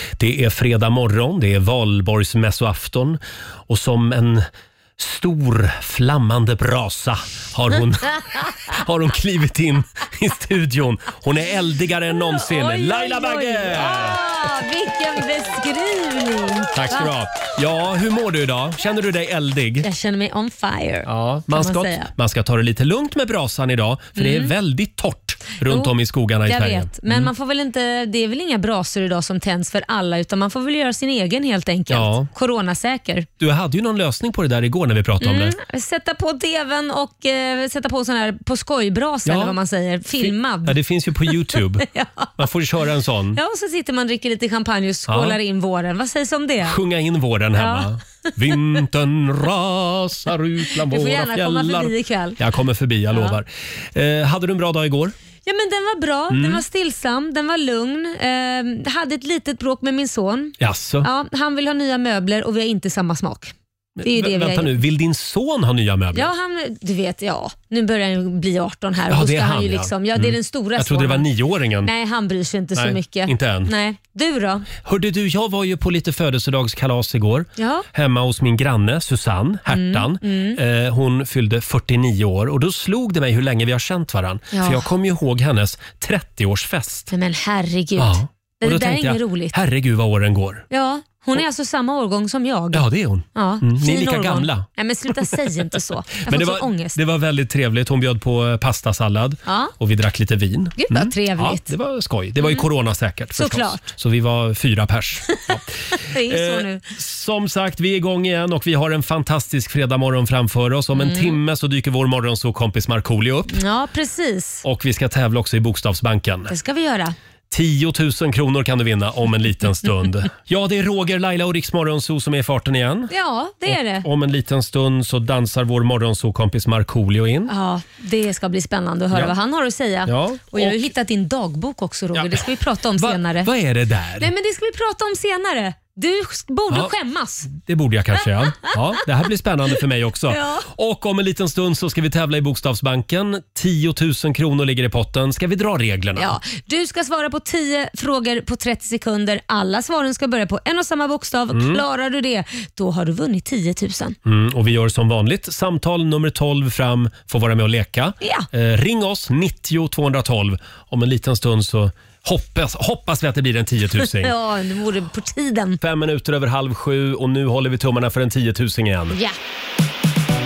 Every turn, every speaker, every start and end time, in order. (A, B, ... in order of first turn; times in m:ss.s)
0:00.2-0:14.3 A
0:12.2-0:17.1 B
0:16.7-0:19.9 A
0:19.8-0:22.1 B
0:21.0-0:27.3 A
0:24.2-0:24.5 B
0:25.6-0:25.9 B
0:26.4-0:33.3 B
0:31.9-0:32.3 A
0:33.4-0:35.6 A
0:35.2-0:42.3 B
0:39.2-0:39.6 A
0:40.2-0:41.8 A
0:42.4-0:43.4 A
0:43.3-0:46.8 B
0:45.1-0:45.4 A
0:46.6-0:55.1 A
0:47.6-0:47.9 B
0:50.9-0:52.4 B
0:55.4-1:04.8 B
0:56.3-0:56.6 A
1:00.6-1:01.1 A
1:04.0-1:06.3 A
1:06.1-1:11.3 B
1:09.1-1:11.9 A
1:11.8-1:14.7 B
1:12.8-1:13.7 A
1:14.8-1:27.1 A
1:17.6-1:17.8 B
1:19.7-1:20.6 B
1:24.5-1:24.9 B
1:27.1-1:29.5 B
1:28.0-1:30.7 A
1:30.7-1:37.0 B
1:32.7-1:35.5 A
1:36.2-1:53.6 A
1:39.4-1:39.7 B
1:40.8-1:41.7 B
1:43.3-1:43.9 B
1:45.4-1:46.8 B
1:50.9-1:51.4 B
1:53.5-1:54.6 B
1:54.6-1:56.5 A
1:56.5-1:57.1 B
1:57.5-2:03.1 A
2:03.1-2:04.0 B
2:03.7-2:07.5 A
2:07.5-2:13.5 B
2:10.0-2:10.8 A
2:12.1-2:12.4 A
2:13.0-2:14.3 A
2:14.2-2:17.5 B
2:17.5-2:26.3 A
2:20.3-2:20.7 B
2:26.2-2:34.2 B
2:31.5-2:31.8 A
2:34.2-2:44.3 A
2:38.2-2:38.5 B
2:44.0-2:45.8 B
2:45.8-2:49.2 A
2:49.1-2:49.4 B